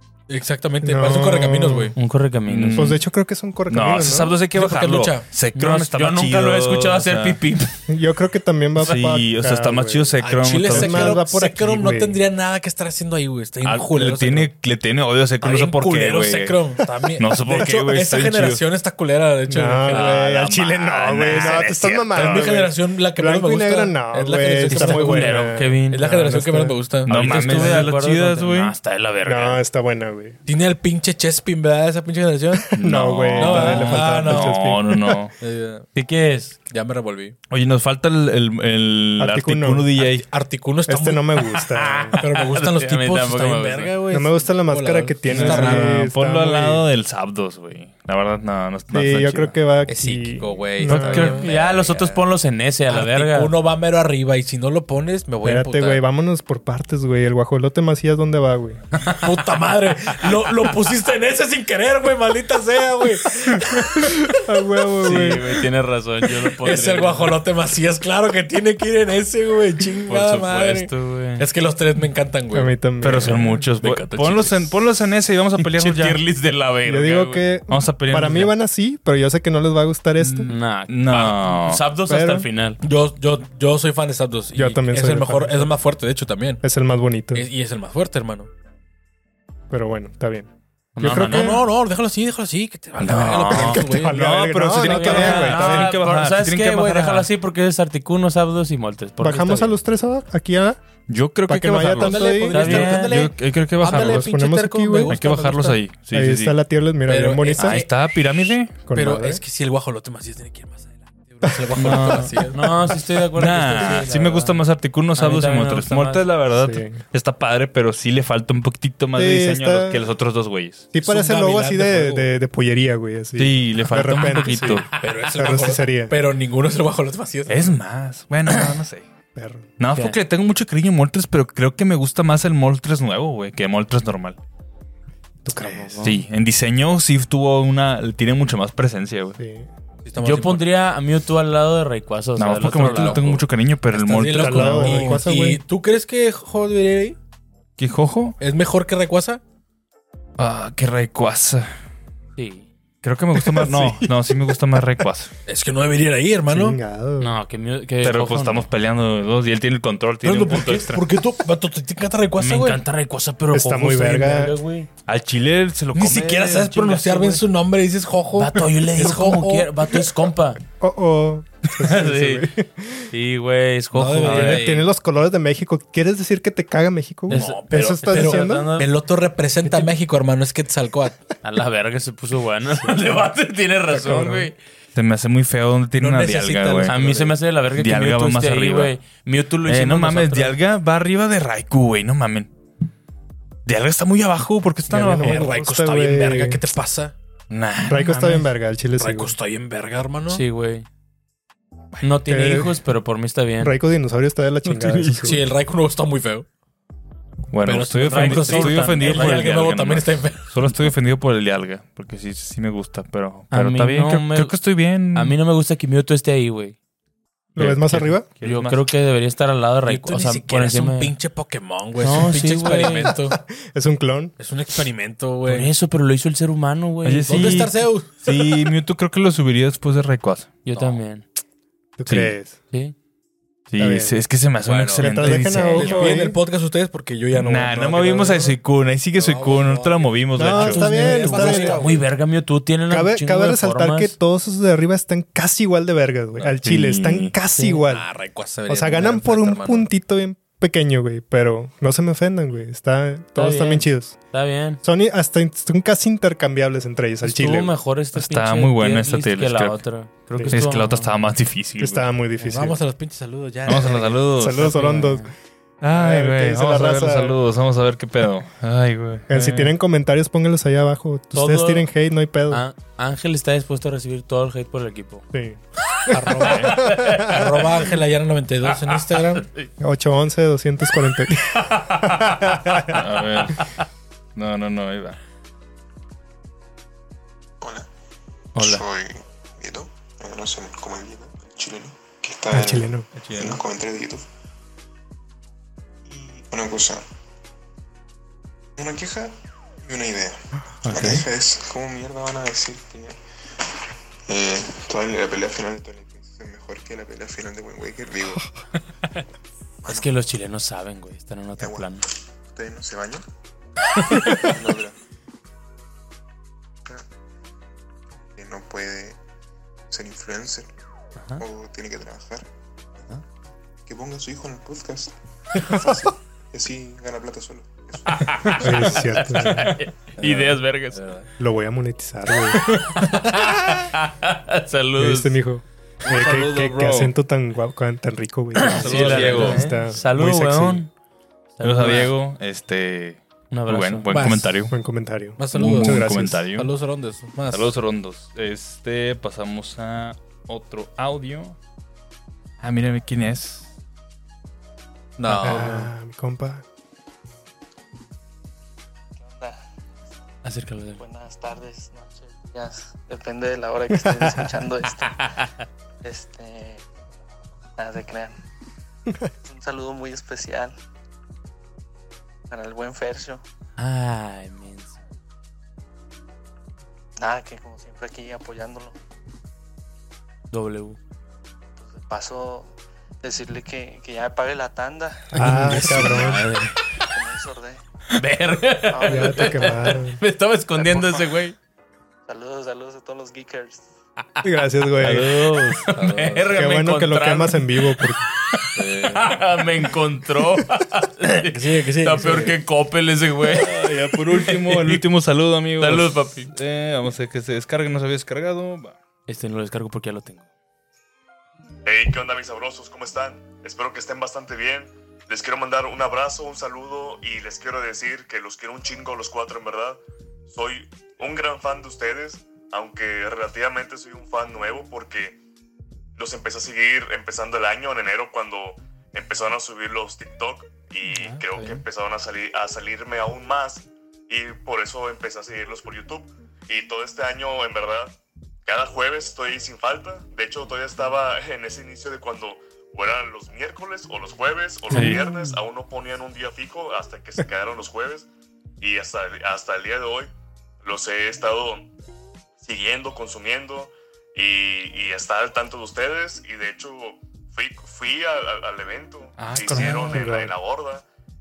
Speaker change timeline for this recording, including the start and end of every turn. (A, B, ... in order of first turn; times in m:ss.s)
0:00.3-0:02.0 A
0:00.8-0:01.9 B
0:02.0-0:03.0 C
0:02.5-0:03.0 D
0:02.7-0:04.4 B
0:03.7-0:07.4 D
0:04.5-0:05.3 A
0:05.6-0:07.7 C
0:07.9-0:12.2 B
0:08.8-0:11.2 D
0:10.2-0:14.5 A
0:13.7-0:16.6 D
0:15.4-0:20.2 A
0:17.2-0:18.6 D
0:19.5-0:26.8 B
0:19.9-0:22.5 D
0:21.3-0:21.6 C
0:22.1-0:25.4 A
0:24.7-0:26.1 C
0:25.9-0:27.9 A
0:27.1-0:28.7 D
0:27.1-0:29.6 C
0:29.2-0:30.4 B
0:30.5-0:32.7 A
0:32.7-0:35.2 B
0:32.8-0:35.3 D
0:33.4-0:34.5 A
0:35.4-0:35.9 A
0:36.0-0:36.6 C
0:36.7-0:37.4 A
0:37.5-0:40.2 D
0:39.2-0:39.9 B
0:40.0-0:41.4 A
0:40.9-0:42.2 B
0:41.7-0:43.9 C
0:42.2-0:45.9 A
0:44.1-0:46.8 B
0:45.3-0:49.6 D
0:48.9-0:51.4 B
0:49.9-0:52.2 A
0:50.9-0:53.5 C
0:51.1-0:51.5 D
0:52.9-0:56.0 A
0:55.4-0:58.8 B
0:59.2-1:03.9 A
1:04.0-1:05.6 B
1:05.0-1:07.4 C
1:06.6-1:12.8 A
1:10.1-1:10.9 D
1:10.9-1:11.4 C
1:12.5-1:13.6 B
1:13.0-1:16.2 D
1:13.7-1:14.8 A
1:15.6-1:17.4 C
1:16.9-1:20.5 B
1:17.7-1:18.5 D
1:20.2-1:20.5 A
1:20.5-1:22.8 C
1:20.9-1:21.8 D
1:22.1-1:22.5 B
1:22.8-1:26.6 A
1:24.6-1:25.7 B
1:26.6-1:27.5 B
1:27.3-1:28.5 A
1:29.7-1:31.6 B
1:31.0-1:31.6 C
1:31.1-1:31.5 D
1:31.3-1:34.2 A
1:33.0-1:37.3 D
1:33.1-1:33.7 C
1:33.6-1:35.9 B
1:34.8-1:39.7 C
1:39.2-1:40.8 B
1:41.1-1:44.3 D
1:41.5-1:42.6 B
1:42.0-1:45.8 A
1:42.5-1:43.2 C
1:43.8-1:45.3 B
1:45.1-1:46.6 D
1:46.1-1:47.9 B
1:47.1-1:47.9 A
1:47.6-1:48.7 D
1:48.8-1:49.4 B
1:48.9-1:54.0 A
1:51.4-1:52.1 B
1:51.8-1:54.6 C
1:53.4-2:00.9 D
1:55.2-1:56.3 C
1:56.6-1:57.0 B
1:59.2-2:00.0 B
2:00.9-2:06.2 B
2:01.0-2:02.3 A
2:03.4-2:04.9 D
2:04.2-2:05.0 C
2:05.0-2:07.8 A
2:07.5-2:09.1 D
2:09.4-2:09.7 B
2:09.8-2:14.4 D
2:15.4-2:16.1 B
2:15.6-2:16.2 C
2:16.0-2:19.4 D
2:19.4-2:19.7 B
2:20.0-2:20.6 A
2:20.2-2:23.4 C
2:22.4-2:25.2 D
2:22.8-2:23.2 A
2:23.9-2:27.2 A
2:24.3-2:25.6 B
2:27.8-2:28.4 D
2:28.4-2:29.4 A
2:30.4-2:31.7 D
2:32.4-2:32.7 C
2:33.0-2:35.3 D
2:33.4-2:34.1 B
2:35.5-2:36.8 A
2:36.5-2:37.4 B
2:37.2-2:38.7 C
2:38.0-2:41.0 D
2:40.2-2:42.8 A
2:42.4-2:44.9 C
2:43.5-2:44.6 B
2:45.1-2:47.4 D
2:46.0-2:49.7 A
2:48.4-2:50.6 C
2:50.8-2:53.1 B
2:51.8-2:52.5 C
2:53.1-2:54.8 C
2:53.9-2:54.9 A
2:54.3-2:58.7 B
2:57.3-2:58.9 C
2:57.3-3:01.2 A
3:01.4-3:04.6 C
3:03.9-3:04.5 B
3:05.0-3:06.9 D
3:06.0-3:07.3 A
3:06.9-3:10.6 C
3:07.7-3:08.9 D
3:09.7-3:12.5 D
3:13.6-3:15.5 D
3:14.9-3:16.6 B
3:15.2-3:17.2 A
3:17.5-3:18.5 D
3:17.9-3:19.4 B
3:19.0-3:20.4 A
3:20.3-3:20.9 C
3:22.0-3:23.8 C
3:22.3-3:22.8 B
3:23.6-3:25.4 B
3:24.7-3:25.4 D
3:25.2-3:26.5 A
3:27.5-3:35.4 D
3:27.6-3:30.6 A
3:28.1-3:29.4 C
3:33.5-3:34.6 C
3:35.1-3:36.8 C
3:37.6-3:38.3 B
3:37.6-3:38.8 D
3:38.4-3:41.2 C
3:39.9-3:43.4 A
3:42.0-3:43.1 C
3:43.1-3:44.3 B
3:44.4-3:45.7 A
3:45.4-3:47.5 C
3:47.0-3:50.8 D
3:47.3-3:48.1 A
3:50.6-3:51.2 C
3:52.0-3:52.6 B
3:53.7-3:56.2 D
3:53.8-3:54.2 B
3:54.6-3:55.6 C
3:55.0-3:56.4 B
3:55.7-3:58.6 A
3:57.3-4:00.8 D
3:59.2-4:02.0 A
4:00.4-4:01.8 B
4:00.6-4:04.2 C
4:02.9-4:08.1 B
4:06.6-4:07.3 D
4:07.6-4:07.8 C
4:07.9-4:09.9 A
4:08.7-4:14.2 B
4:13.4-4:14.8 C
4:14.8-4:17.8 B
4:17.2-4:21.1 C
4:18.2-4:19.8 D
4:20.5-4:22.1 D
4:21.8-4:22.8 B
4:22.4-4:24.2 A
4:23.7-4:24.8 D
4:23.7-4:25.3 B
4:24.6-4:25.3 C
4:25.8-4:29.7 D
4:25.8-4:27.4 B
4:29.3-4:32.6 B
4:31.3-4:31.9 C
4:32.5-4:35.3 C
4:35.3-4:37.4 B
4:36.1-4:39.5 A
4:36.5-4:36.8 D
4:36.5-4:37.5 C
4:38.9-4:39.7 C
4:39.8-4:43.0 B
4:41.8-4:42.4 C
4:42.9-4:43.7 D
4:44.4-4:45.2 D
4:47.6-4:47.9 E
4:48.6-4:54.3 E
4:48.6-4:48.8 C
4:52.5-4:53.1 B
4:53.1-4:53.6 A
4:56.1-4:57.0 E
4:58.8-5:03.2 E
5:00.8-5:01.3 C
5:04.3-5:08.5 E
5:09.8-5:10.2 E
5:09.8-5:12.1 C
5:11.6-5:11.9 E
5:12.5-5:13.2 E
5:14.1-5:14.5 C
5:14.2-5:15.0 E
5:18.4-5:19.2 E
5:19.9-5:20.7 E
5:21.3-5:22.5 E
5:23.9-5:29.2 E
5:28.1-5:31.0 C
5:28.5-5:29.8 B
5:30.2-5:31.3 A
5:31.4-5:32.8 B
5:32.6-5:35.4 C
5:35.0-5:40.8 B
5:36.0-5:37.1 D
5:38.6-5:40.9 C
5:38.7-5:39.6 A
5:38.8-5:39.6 D
5:41.6-5:42.1 C
5:41.6-5:44.7 D
5:43.5-5:44.1 C
5:44.1-5:44.5 A
5:44.7-5:46.5 B
5:45.4-5:47.7 A
5:45.5-5:46.7 D
5:47.5-5:51.6 D
5:52.6-5:53.7 D
5:55.2-5:55.9 A
5:55.3-5:56.6 B
5:59.2-5:59.6 F
6:00.4-6:01.0 C
6:01.0-6:05.2 F
6:04.0-6:04.4 B
6:04.9-6:05.6 C
6:06.0-6:06.8 F
6:07.8-6:08.4 F
6:09.4-6:10.8 F
6:12.5-6:13.4 F
6:13.8-6:15.0 C
6:17.2-6:19.0 F
6:20.5-6:21.0 C
6:21.8-6:26.3 F
6:25.3-6:26.4 B
6:25.4-6:26.8 C
6:27.1-6:27.8 F
6:28.2-6:31.6 C
6:28.9-6:29.8 F
6:29.1-6:30.2 B
6:30.8-6:31.4 F
6:32.3-6:33.9 F
6:34.4-6:35.3 B
6:35.0-6:35.9 D
6:35.2-6:45.0 C
6:35.9-6:36.5 A
6:36.5-6:38.3 B
6:38.8-6:39.3 A
6:41.5-6:42.6 A
6:43.4-6:49.0 D
6:45.8-6:46.5 C
6:49.3-6:50.4 C
6:51.8-7:05.4 G
7:06.2-7:28.3 G
7:24.9-7:25.2 D
7:24.9-7:25.4 C
7:28.8-7:30.3 G
7:30.8-7:31.9 G
7:32.6-7:41.0 G
7:39.4-7:40.3 D
7:40.1-7:40.6 B